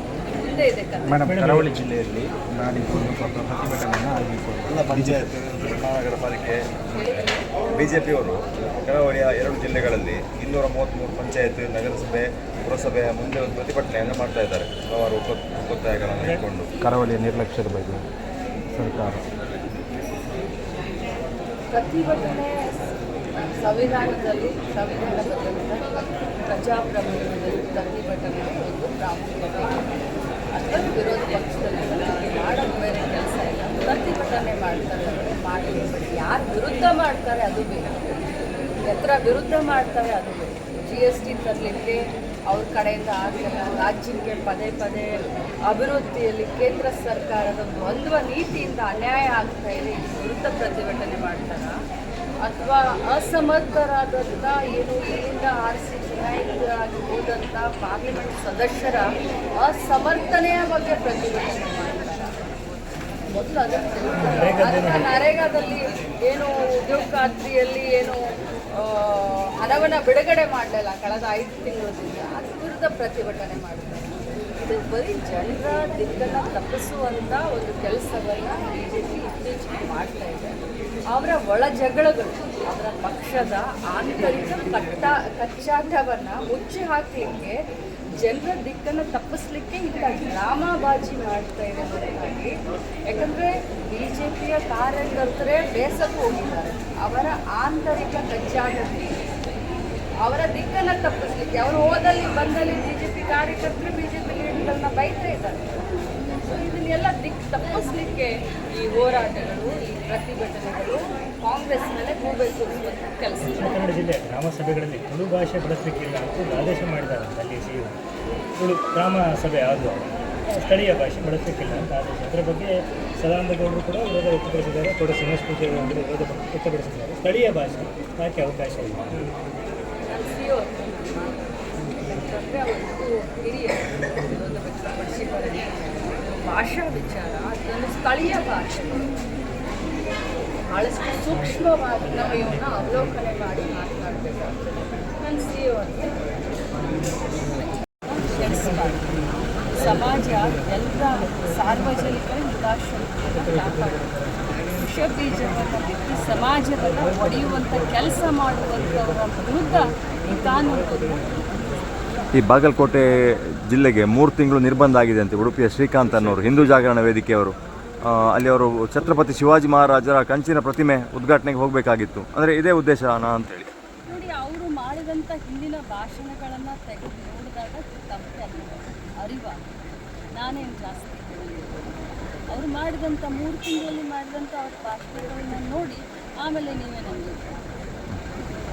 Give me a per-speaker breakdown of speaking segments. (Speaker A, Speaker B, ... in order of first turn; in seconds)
Speaker A: 0.2-1.2, 6.9-7.6, 21.7-29.8, 30.5-38.2, 38.9-45.1, 45.7-51.8, 52.4-62.5, 63.3-68.2, 68.7-80.6, 81.1-87.6, 88.1-92.5, 93.1-99.2, 100.2-105.9, 106.4-113.8, 130.1-139.1, 140.7-146.1, 147.4-149.1, 149.7-161.4, 174.1-179.6, 180.3-187.5
Speaker B: 1.1-5.3, 16.8-18.0, 18.7-19.2
Speaker C: 1.2-1.7, 64.1-65.1, 113.4-118.0, 118.6-129.2
Speaker D: 4.6-16.7, 162.3-173.7